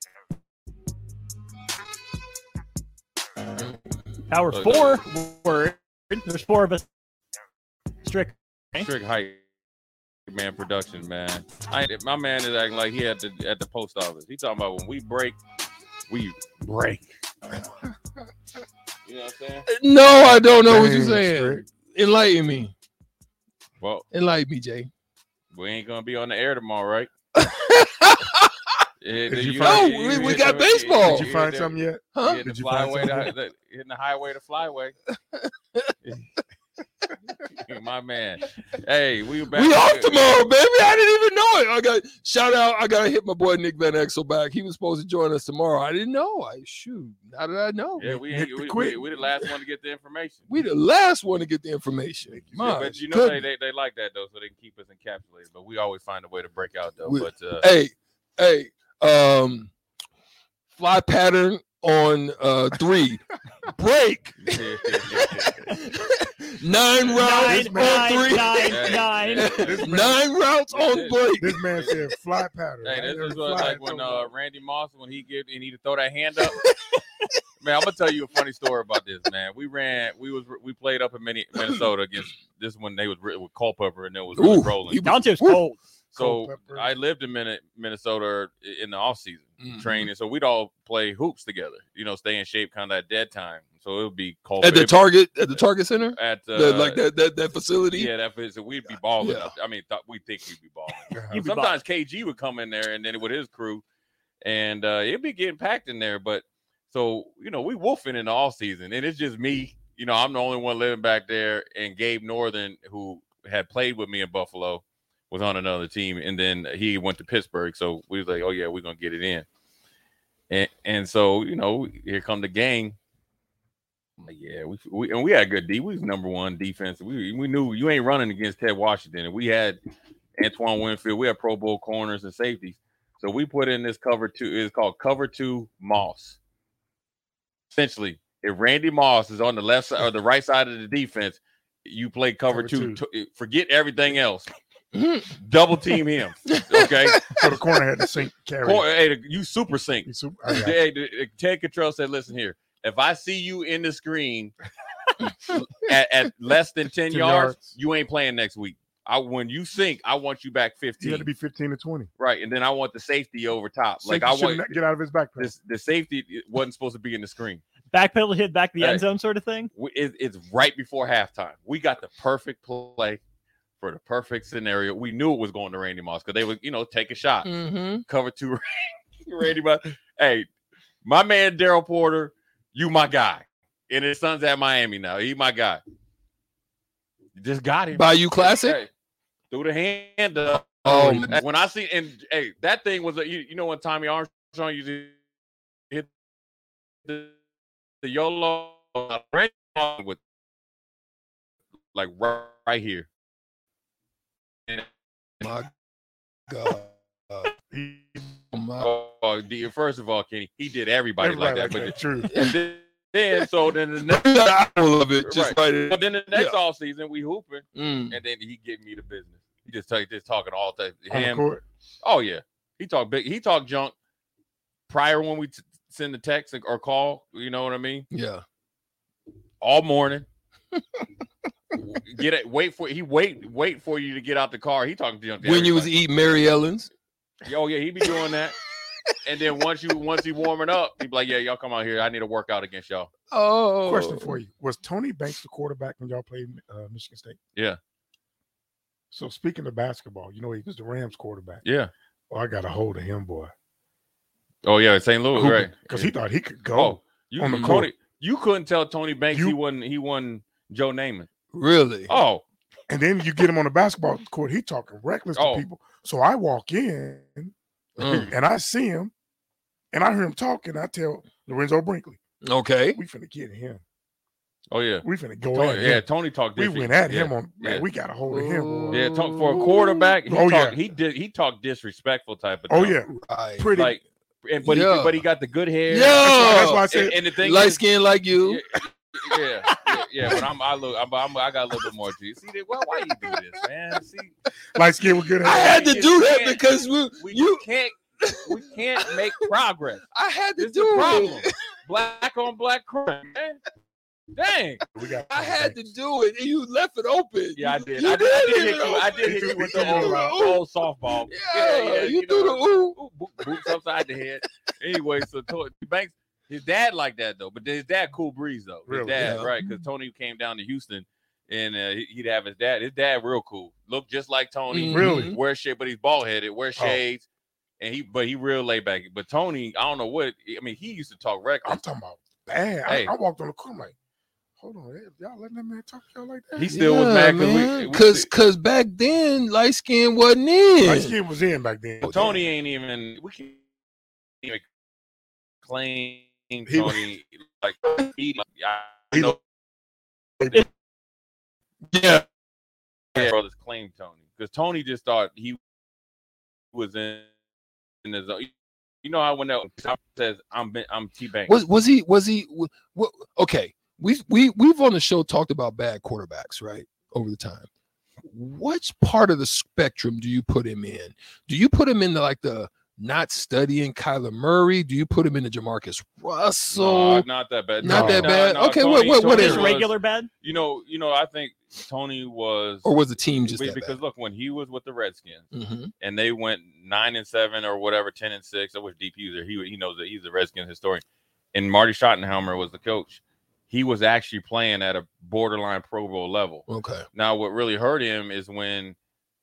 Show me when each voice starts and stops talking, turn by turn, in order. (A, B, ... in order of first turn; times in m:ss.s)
0:04.3-0:06.8 A
0:04.5-0:05.0 B
0:08.0-0:08.9 A
0:08.8-0:09.4 B
0:10.3-0:15.4 B
0:16.1-0:17.1 B
0:19.0-0:20.6 B
0:19.7-0:22.7 C
0:20.6-0:21.6 D
0:23.8-0:24.0 B
0:24.1-0:24.9 C
0:25.5-0:27.1 B
0:27.4-0:28.5 C
0:29.0-0:34.9 B
0:29.3-0:30.5 D
0:29.6-0:31.3 C
0:31.0-0:33.3 D
0:32.1-0:32.4 C
0:35.1-0:35.9 C
0:37.5-0:40.5 B
0:39.5-0:48.2 C
0:48.0-0:50.5 B
0:48.3-0:49.1 D
0:50.5-0:53.4 C
0:52.3-0:52.8 D
0:52.6-0:57.7 B
0:57.0-0:59.7 C
1:00.8-1:04.6 C
1:04.4-1:05.8 B
1:05.2-1:11.6 C
1:07.1-1:09.5 A
1:07.1-1:08.3 D
1:08.6-1:09.9 B
1:09.5-1:10.2 D
1:10.7-1:11.9 B
1:11.4-1:14.3 D
1:12.8-1:16.6 B
1:17.6-1:25.2 B
1:24.3-1:25.6 C
1:25.0-1:25.8 A
1:26.1-1:35.6 B
1:26.2-1:26.9 D
1:29.6-1:30.1 C
1:34.6-1:38.1 C
1:36.1-1:37.0 B
1:37.9-1:43.8 B
1:39.2-1:39.5 C
1:41.1-1:41.4 D
1:41.3-1:41.8 A
1:44.4-1:59.4 B
2:00.5-2:03.0 B
2:04.2-2:09.8 B
2:10.4-2:16.4 B
2:17.7-2:24.5 B
2:22.5-2:23.0 D
2:24.9-2:25.3 C
2:25.4-2:27.2 B
2:26.5-2:27.5 C
2:27.4-2:28.8 D
2:28.6-2:34.5 B
2:30.0-2:30.7 D
2:35.8-2:41.3 B
2:37.1-2:37.7 D
2:41.0-2:42.1 D
2:42.2-2:44.8 B
2:44.0-2:45.5 D
2:45.4-2:47.6 B
2:47.9-2:49.7 A
2:48.8-2:49.0 B
2:49.7-2:53.2 B
2:53.8-2:57.5 B
2:57.4-2:58.0 C
2:58.0-3:00.5 B
3:01.0-3:05.8 B
3:07.4-3:08.9 B
3:07.9-3:08.8 C
3:09.5-3:15.1 B
3:10.8-3:11.4 C
3:17.0-3:17.3 B
3:18.0-3:20.2 B
3:21.9-3:23.1 B
3:25.4-3:25.7 C
3:26.5-3:27.5 C
3:27.7-3:28.3 D
3:28.5-3:28.9 C
3:28.8-3:34.3 B
3:31.2-3:32.3 D
3:32.2-3:32.5 C
3:34.0-3:36.6 C
3:35.2-3:41.4 B
3:37.7-3:38.2 C
3:41.1-3:41.6 D
3:42.0-3:43.9 B
3:44.9-3:48.1 B
3:48.1-3:48.4 C
3:49.6-3:50.2 B
3:51.7-3:55.9 B
3:55.4-3:56.9 C
3:57.4-3:58.6 B
3:59.2-4:03.1 B
4:03.3-4:04.4 C
4:03.8-4:07.4 D
4:09.1-4:11.6 D
4:11.6-4:11.9 B
4:12.3-4:13.5 D
4:14.6-4:16.1 B
4:15.3-4:17.9 D
4:16.7-4:21.3 B
4:17.5-4:17.8 C
4:19.3-4:19.6 D
4:21.5-4:22.1 C
4:22.1-4:22.4 B
4:22.9-4:27.5 D
4:25.3-4:25.6 B
4:28.0-4:28.3 C
4:28.0-4:29.1 D
4:29.9-4:32.2 D
4:32.4-4:33.0 C
4:32.9-4:33.8 D
4:34.7-4:37.9 B
4:35.0-4:36.0 D
4:36.6-4:39.0 D
4:38.3-4:40.1 C
4:38.9-4:43.0 B
4:40.3-4:40.8 D
4:42.7-4:44.0 D
4:43.1-4:43.7 C
4:43.7-4:47.8 B
4:44.6-4:45.2 C
4:45.9-4:46.9 C
4:46.2-4:47.2 D
4:47.4-4:48.6 C
4:48.4-4:54.3 B
4:54.7-4:55.9 D
4:55.4-5:00.0 B
4:55.4-4:57.6 C
4:58.2-4:59.5 C
5:00.1-5:01.5 C
5:00.6-5:03.6 B
5:04.3-5:04.8 B
5:04.9-5:05.9 D
5:05.3-5:10.6 C
5:07.5-5:27.2 B
5:09.2-5:10.4 D
5:11.3-5:13.8 C
5:18.9-5:19.4 D
5:19.2-5:19.7 C
5:24.7-5:25.4 C
5:24.9-5:25.3 D
5:26.8-5:27.0 D
5:27.8-5:31.8 B
5:31.6-5:33.9 D
5:32.8-5:33.1 B
5:34.6-5:36.7 D
5:36.6-5:38.3 B
5:36.7-5:41.2 C
5:40.8-5:42.4 D
5:42.0-5:43.6 B
5:45.6-5:49.4 B
5:46.7-5:47.0 D
5:51.9-5:52.2 C
5:53.1-5:55.6 B
5:56.7-5:57.3 B
5:58.0-6:01.6 B
6:01.4-6:07.6 C
6:08.3-6:17.3 C
6:16.7-6:19.9 B
6:17.8-6:19.8 C
6:17.8-6:18.3 D
6:19.1-6:20.3 A
6:20.4-6:25.5 B
6:22.8-6:24.0 C
6:25.5-6:25.9 C
6:26.0-6:31.0 B
6:31.5-6:39.0 B
6:36.7-6:37.0 C